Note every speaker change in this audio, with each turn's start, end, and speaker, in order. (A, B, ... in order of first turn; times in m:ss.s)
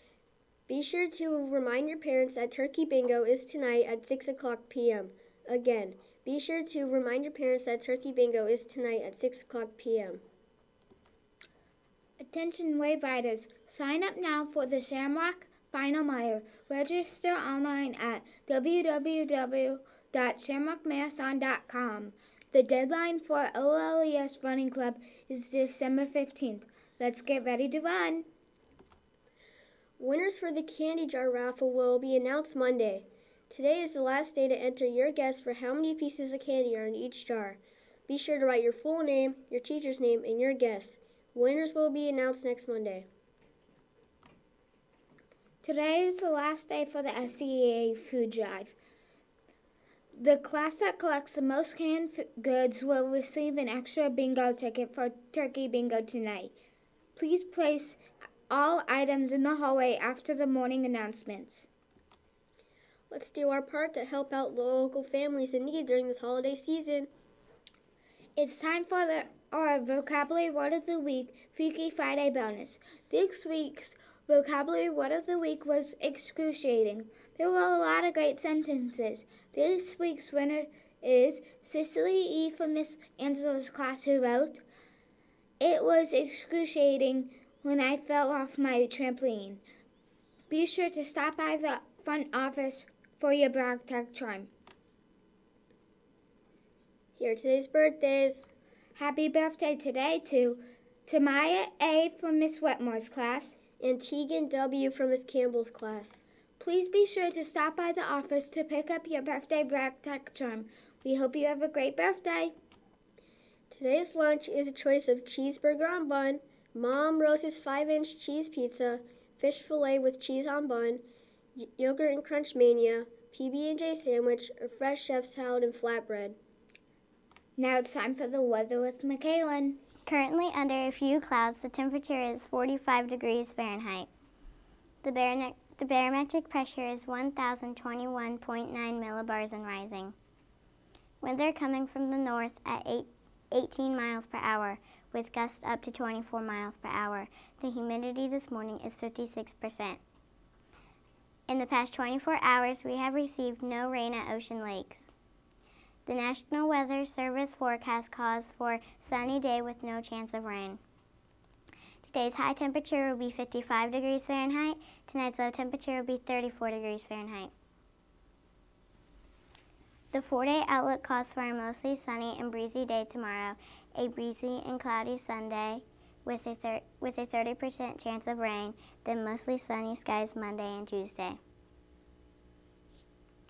0:00.7-0:10.2 A
0:12.2-0:28.3 B
0:30.0-0:43.1 A
0:45.6-0:48.8 B
0:50.2-0:56.5 B
0:57.2-1:01.7 B
1:03.1-1:07.1 A
1:08.4-1:24.6 B
1:25.6-1:29.6 B
1:30.5-1:34.5 B
1:37.2-1:38.4 A
1:39.0-1:43.6 B
1:43.8-1:46.2 A
1:46.6-1:52.6 B
1:53.7-2:01.0 A
2:01.6-2:06.4 A
2:07.6-2:09.8 B
2:10.1-2:14.1 C
2:15.0-2:20.1 C
2:21.2-2:30.0 C
2:31.5-2:35.1 C
2:36.1-2:40.8 C
2:42.0-2:47.5 C
2:50.1-3:01.4 C